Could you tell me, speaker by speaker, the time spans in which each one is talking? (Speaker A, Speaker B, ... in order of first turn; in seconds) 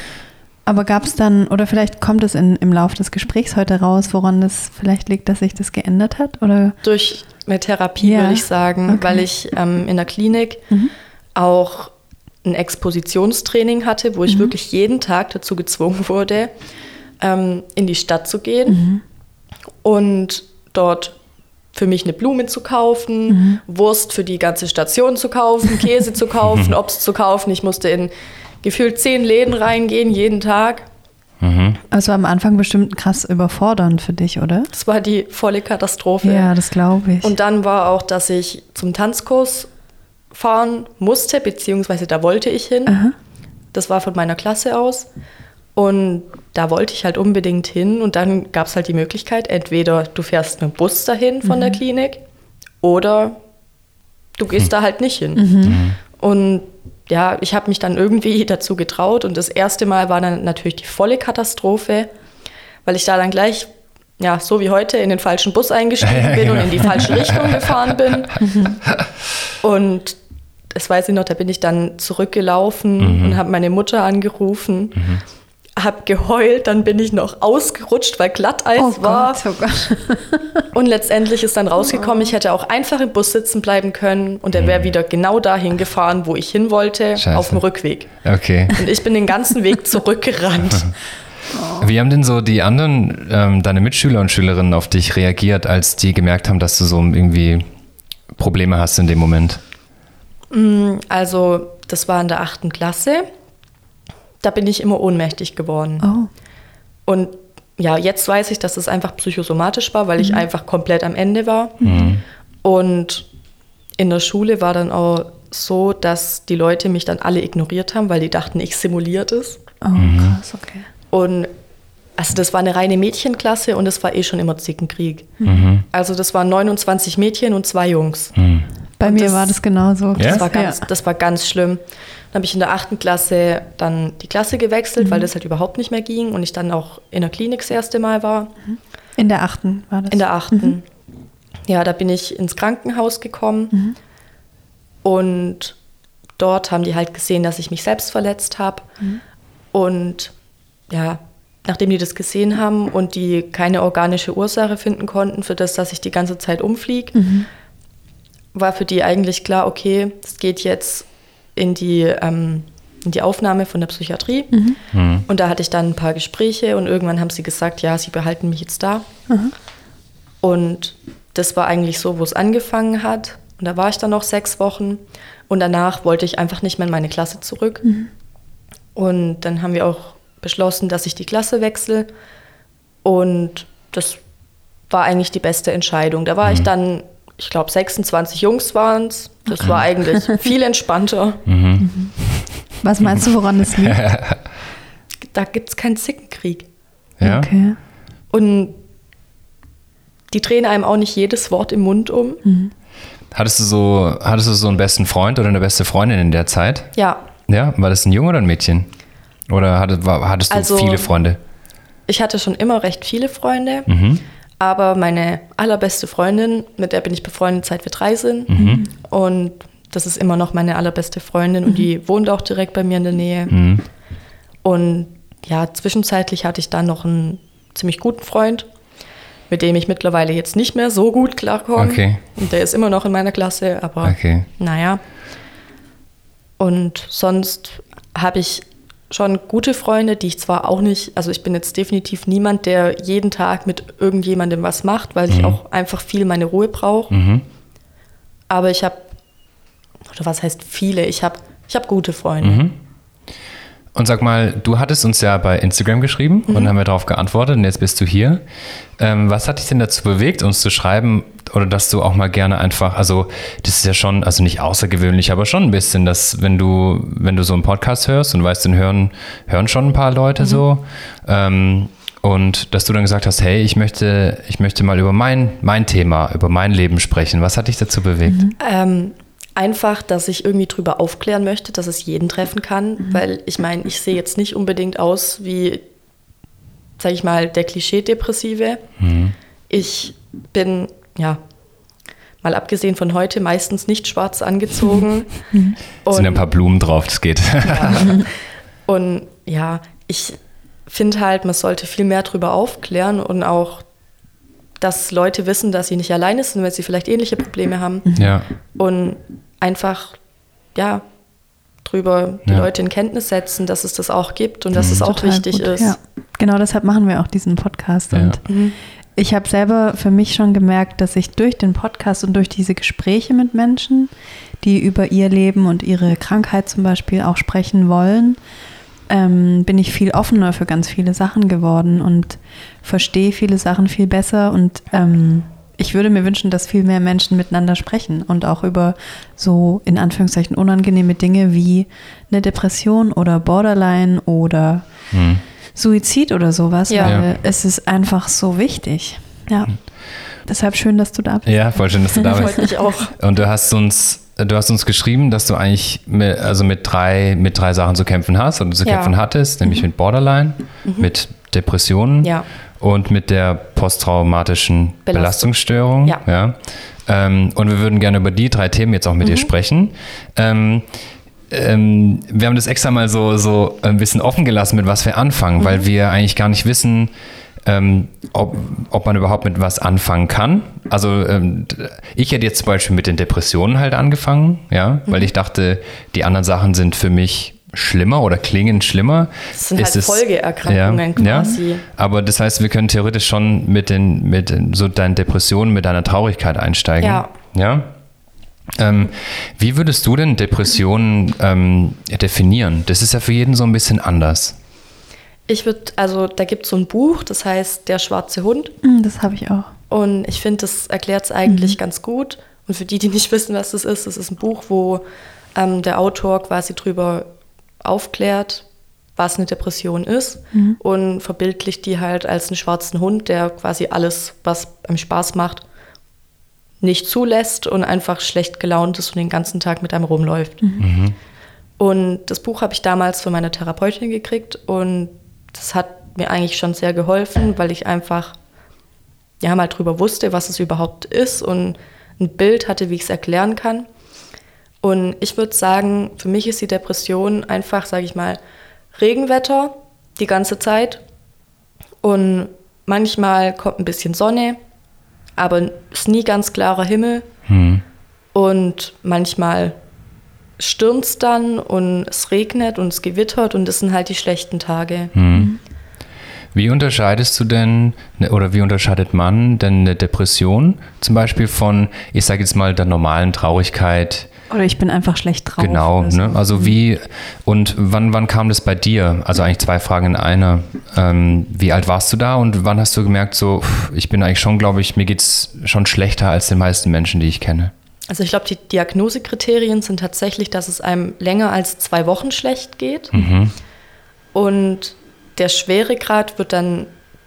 Speaker A: 0.7-6.8, 8.0-9.2, 18.7-19.0, 23.3-23.6, 31.9-34.7, 36.2-37.4, 42.9-43.1, 51.4-51.8, 55.4-55.8, 68.4-68.7, 78.8-80.6, 81.8-82.3, 91.5-91.9, 106.0-106.3, 110.2-110.4, 111.8-112.2, 119.8-120.9, 125.4-125.7, 129.0-130.8, 135.0-135.3, 139.2-140.8, 157.1-157.5, 164.5-164.8, 177.8-178.1, 189.5-190.3, 191.8-192.1, 192.8-194.0, 197.2-197.8, 202.4-202.7, 218.5-218.9, 278.3-278.5, 295.5-295.8, 308.1-308.3, 315.0-318.6, 319.1-328.4, 329.1-344.9, 345.7-352.7, 391.2-391.5, 408.8-409.7, 411.4-411.8, 420.5-420.8, 465.3-465.6, 474.5-476.8
Speaker B: 6.8-10.6, 11.3-11.9, 12.4-16.5, 17.2-18.8, 19.8-21.1, 21.7-28.1, 28.6-30.9, 34.7-36.5, 37.2-39.7, 40.3-43.0, 43.7-45.1, 45.8-52.2, 52.8-53.4, 54.4-62.1, 62.8-68.7, 69.6-70.2, 70.7-75.1, 75.8-79.4, 80.7-88.1, 88.7-90.9, 100.5-103.3, 104.4-106.1, 107.0-111.8, 112.6-113.3, 114.0-119.6, 121.1-121.5, 122.2-125.3, 125.9-128.3, 129.0-129.6, 130.1-138.5, 140.1-140.8, 141.7-143.8, 145.0-145.8, 146.4-148.9, 149.7-150.3, 150.9-157.3, 158.5-164.6, 165.3-169.1, 170.4-177.9, 178.9-182.1, 183.0-184.2, 184.9-191.4, 195.3-196.7, 198.3-198.8, 200.3-202.4, 206.9-207.2, 210.5-211.1, 212.1-213.9, 214.6-223.5, 224.6-228.7, 229.5-235.0, 236.6-247.1, 248.5-249.1, 250.1-252.7, 256.5-256.7, 278.6-285.8, 287.0-288.8, 289.7-291.4, 292.4-296.4, 297.6-303.8, 304.8-308.1, 308.8-310.2, 310.7-311.1, 311.8-315.9, 318.4-318.8, 346.9-347.2, 352.3-353.1, 358.8-359.1, 360.8-361.1, 365.1-366.2, 369.2-369.5, 375.6-375.9, 389.5-391.8, 397.0-397.3, 405.5-408.8, 409.9-415.0, 415.5-417.3, 417.8-425.6, 426.8-430.6, 431.8-438.4, 439.4-443.9, 444.8-448.4, 448.9-451.0, 452.0-454.6, 455.4-457.3, 458.3-459.8, 460.6-465.1, 488.1-493.1, 494.3-496.9
Speaker C: 31.4-31.8, 55.6-56.0, 66.0-67.7, 73.0-73.4, 84.5-84.9, 87.2-87.6, 88.1-88.8, 91.8-97.7, 98.4-99.6, 111.8-112.2, 120.0-120.4, 125.4-125.8, 128.3-128.7, 130.1-130.4, 164.9-165.2, 191.4-192.5, 193.7-194.4, 197.2-197.5, 203.3-206.9, 207.5-208.9, 209.5-211.4, 213.9-214.2, 218.5-218.8, 223.5-223.8, 231.8-232.2, 234.0-234.5, 245.3-245.6, 247.1-247.4, 252.4-252.7, 253.9-258.4, 259.0-278.5, 289.0-289.3, 296.1-298.1, 308.1-308.4, 314.7-315.0, 318.1-318.4, 345.1-345.4, 347.0-347.2, 351.4-370.9, 371.5-377.1, 377.6-397.9, 398.8-404.6, 430.8-431.1, 457.5-457.8, 465.1-465.5, 466.5-474.3, 475.6-487.7, 493.1-493.5